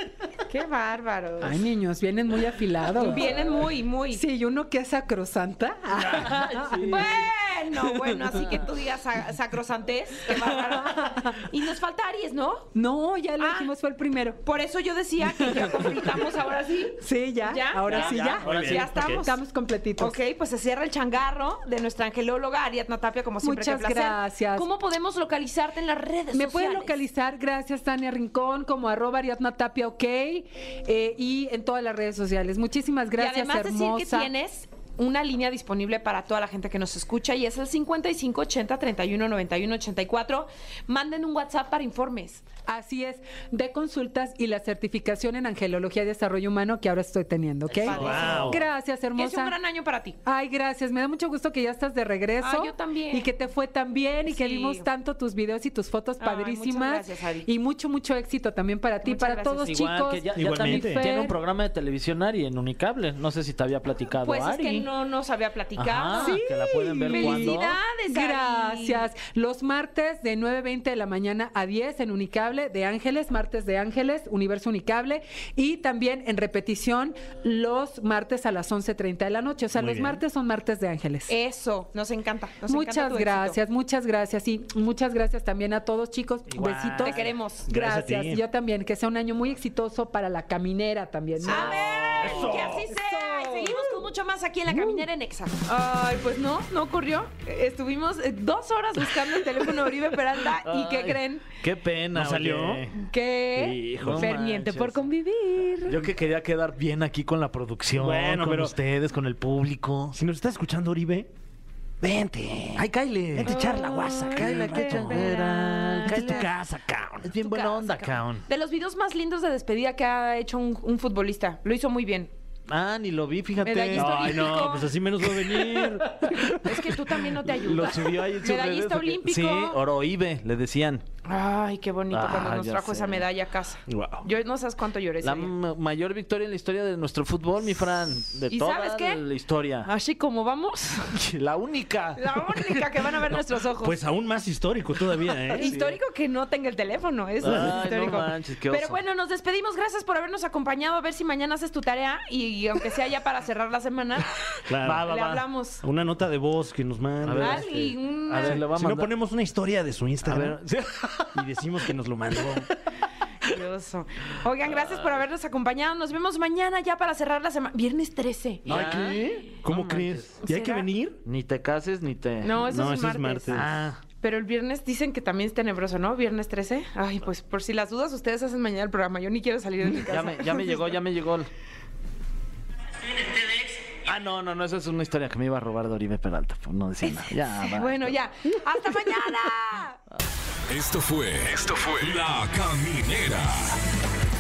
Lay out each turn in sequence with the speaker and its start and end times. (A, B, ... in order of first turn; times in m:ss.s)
0:00.5-0:01.6 A
0:01.4-0:03.4 B
0:02.9-0:04.2 A
0:03.0-0:03.7 C
0:04.1-0:07.1 B
0:05.9-0:07.3 C
0:06.9-0:12.7 A
0:07.9-0:08.4 B
0:10.3-0:11.5 B
0:12.8-0:14.4 B
0:13.4-0:13.7 A
0:14.4-0:19.4 A
0:15.4-0:15.7 B
0:17.0-0:18.5 B
0:17.9-0:19.0 C
0:18.4-0:19.3 D
0:19.1-0:20.2 B
0:20.0-0:27.0 A
0:23.4-0:24.7 B
0:26.3-0:34.3 B
0:33.2-0:42.4 A
0:42.7-0:49.6 B
0:47.7-0:50.2 A
0:47.9-0:48.6 C
0:47.9-0:48.6 D
0:50.2-1:01.4 B
0:52.4-0:53.3 A
0:54.3-0:54.9 A
0:56.2-0:57.5 A
0:59.0-0:59.8 A
0:59.6-1:04.9 C
1:00.4-1:01.1 D
1:04.2-1:06.4 A
1:05.8-1:07.8 C
1:06.2-1:21.3 B
1:07.1-1:09.1 A
1:19.8-1:20.2 D
1:21.3-1:23.6 A
1:22.7-1:34.0 B
1:26.5-1:27.4 C
1:27.0-1:27.7 A
1:27.7-1:28.4 D
1:31.4-1:41.5 A
1:31.7-1:32.6 C
1:32.2-1:32.9 D
1:40.6-1:43.0 C
1:42.1-1:42.9 D
1:43.0-1:46.1 A
1:43.6-1:44.4 D
1:44.0-1:45.1 C
1:45.8-1:50.2 C
1:48.0-1:48.7 D
1:50.2-1:51.3 D
1:52.0-1:55.3 D
1:52.8-1:53.6 C
1:53.4-1:56.5 A
1:54.2-1:56.5 C
1:56.0-1:57.3 D
1:57.2-1:58.5 C
1:57.4-2:02.3 A
2:02.7-2:04.8 C
2:03.6-2:04.9 A
2:04.0-2:07.2 D
2:06.3-2:09.8 A
2:07.5-2:11.0 C
2:11.2-2:15.5 A
2:12.1-2:13.3 C
2:13.9-2:14.2 D
2:15.2-2:19.9 C
2:18.5-2:19.2 A
2:19.8-2:21.2 A
2:21.1-2:23.0 C
2:22.2-2:24.0 A
2:23.8-2:25.7 D
2:25.4-2:35.8 A
2:25.6-2:26.0 C
2:27.4-2:29.0 C
2:27.4-2:27.8 D
2:34.7-2:35.1 D
2:34.8-2:35.4 C
2:35.8-2:37.8 D
2:37.2-2:39.1 C
2:37.3-2:38.6 A
2:38.4-2:40.6 D
2:40.2-2:41.4 C
2:41.3-2:42.7 D
2:43.4-2:49.3 A
2:44.6-2:45.2 C
2:48.6-2:50.4 C
2:48.7-2:51.2 D
2:50.4-2:50.9 A
2:51.2-2:52.7 C
2:52.4-2:53.7 A
2:52.7-2:53.7 D
2:53.5-2:54.0 C
2:54.2-3:01.0 A
3:00.1-3:01.5 C
3:03.9-3:08.2 C
3:07.0-3:10.0 A
3:10.7-3:13.8 E